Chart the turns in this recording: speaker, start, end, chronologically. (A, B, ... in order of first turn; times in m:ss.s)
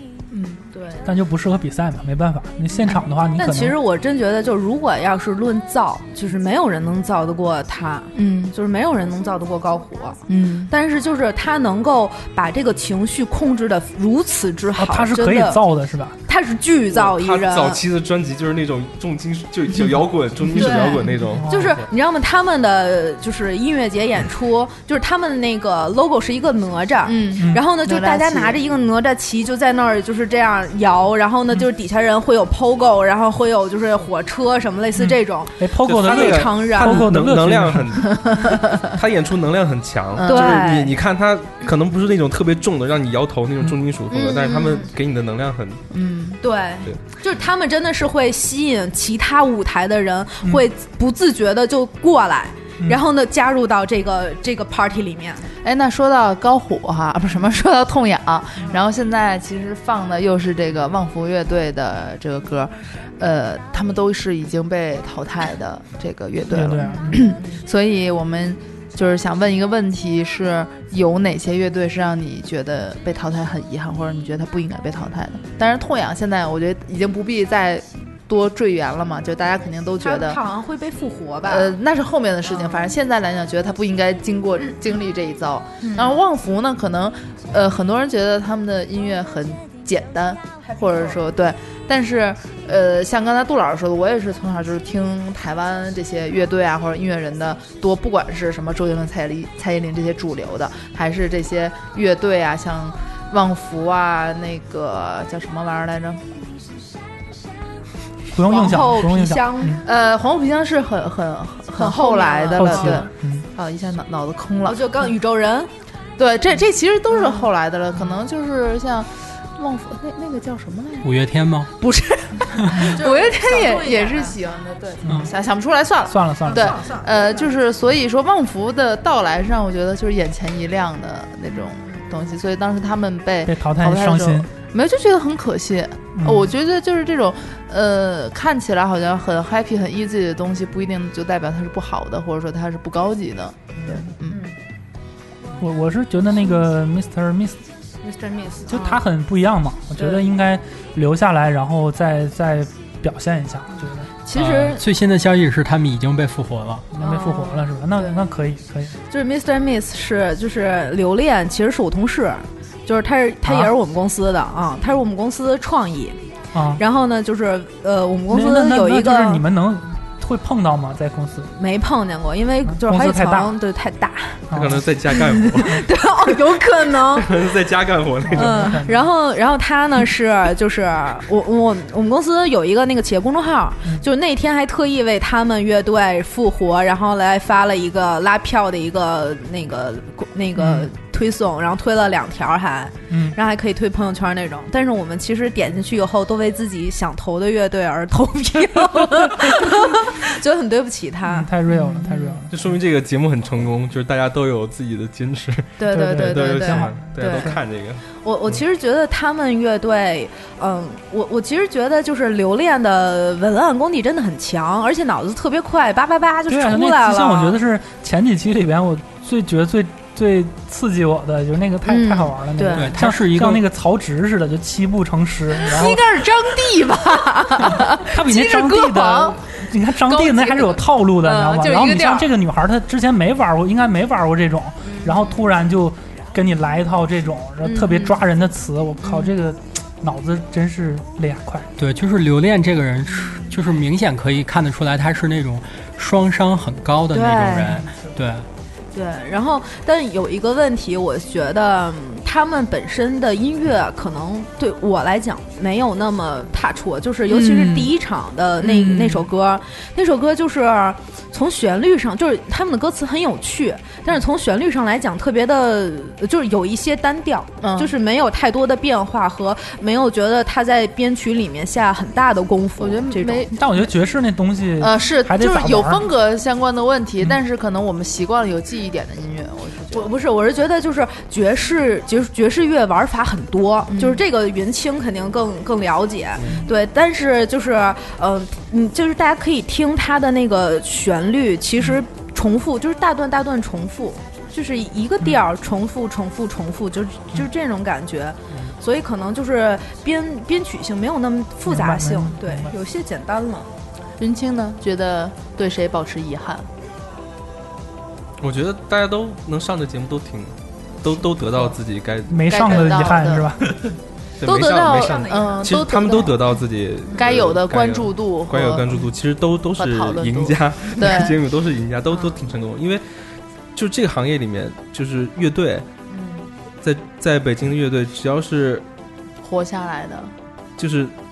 0:00.3-0:00.6 A
0:00.7-0:01.1 B
0:01.0-0:03.8 C
0:03.4-0:15.6 B
0:08.2-0:08.5 A
0:10.3-0:10.7 A
0:14.8-0:16.2 C
0:16.3-0:17.8 B
0:16.9-0:21.9 D
0:20.5-0:21.2 A
0:20.6-0:37.1 B
0:21.3-0:21.7 C
0:27.0-0:28.6 A
0:35.0-0:38.0 C
0:35.8-0:45.8 D
0:38.1-0:38.9 A
0:40.2-0:40.8 A
0:40.2-0:40.9 B
0:44.1-0:44.9 B
0:45.9-0:46.4 A
0:46.4-0:55.5 B
0:55.6-1:20.4 A
1:06.5-1:07.3 C
1:06.8-1:07.6 B
1:20.0-1:21.8 B
1:21.4-1:46.4 A
1:22.5-1:22.9 B
1:25.8-1:26.2 B
1:30.6-1:31.2 B
1:48.3-1:49.8 C
1:48.5-1:49.8 B
1:49.8-1:55.1 A
1:51.8-1:53.0 B
1:52.6-1:53.4 C
1:54.7-1:55.7 B
1:56.2-2:01.1 A
1:57.1-1:57.5 B
2:01.0-2:01.7 E
2:01.8-2:04.4 B
2:02.5-2:02.9 E
2:02.7-2:24.4 A
2:05.0-2:05.3 C
2:06.1-2:06.8 C
2:06.5-2:07.5 B
2:11.8-2:12.1 B
2:13.4-2:14.5 C
2:16.2-2:16.5 C
2:24.3-2:24.6 B
2:25.6-2:27.6 C
2:28.0-2:29.0 B
2:28.7-2:34.1 C
2:30.0-2:30.2 B
2:34.2-2:34.8 B
2:34.3-2:36.9 E
2:36.9-2:39.0 C
2:37.0-2:38.2 B
2:39.1-2:46.2 B
2:43.4-2:43.7 C
2:46.5-2:46.8 C
2:46.8-2:49.4 B
2:48.3-2:51.5 C
2:51.6-2:54.4 B
2:52.7-2:53.6 C
2:54.5-2:54.8 C
2:54.5-2:55.9 D
2:55.1-2:57.3 B
2:57.1-2:58.8 D
2:58.3-2:59.0 C
2:58.3-3:22.4 B
3:10.6-3:10.9 C
3:13.1-3:13.4 C
3:21.3-3:22.5 C
3:21.7-3:22.2 A
3:22.5-3:28.6 D
3:25.8-3:27.6 B
3:25.9-3:27.6 C
3:28.2-3:37.6 B
3:36.5-3:46.1 C
3:41.8-3:43.0 B
3:42.7-3:43.7 E
3:45.6-3:49.4 A
3:47.8-4:01.7 C
3:50.0-3:52.3 A
3:55.0-3:55.3 A
3:59.0-3:59.3 A
4:01.8-4:08.5 E
4:07.1-4:07.8 B
4:08.9-4:33.5 B
4:17.3-4:17.9 A
4:18.6-4:19.3 A
4:27.6-4:27.9 A
4:32.8-4:33.9 A
4:33.5-4:36.1 C
4:34.8-4:40.1 A
4:39.9-5:03.7 B
4:43.9-4:44.2 A
5:01.7-5:02.7 C
5:04.2-5:06.7 A
5:08.4-5:12.7 D
5:12.3-5:13.7 C
5:12.5-5:13.6 A
5:13.7-5:23.0 D
5:14.4-5:16.5 A
5:14.5-5:15.8 B
5:17.2-5:19.1 A
5:19.8-5:21.4 A
5:23.7-5:25.9 D
5:26.1-5:26.5 B
5:26.8-5:28.9 D
5:29.4-5:30.3 A
5:30.8-5:31.2 D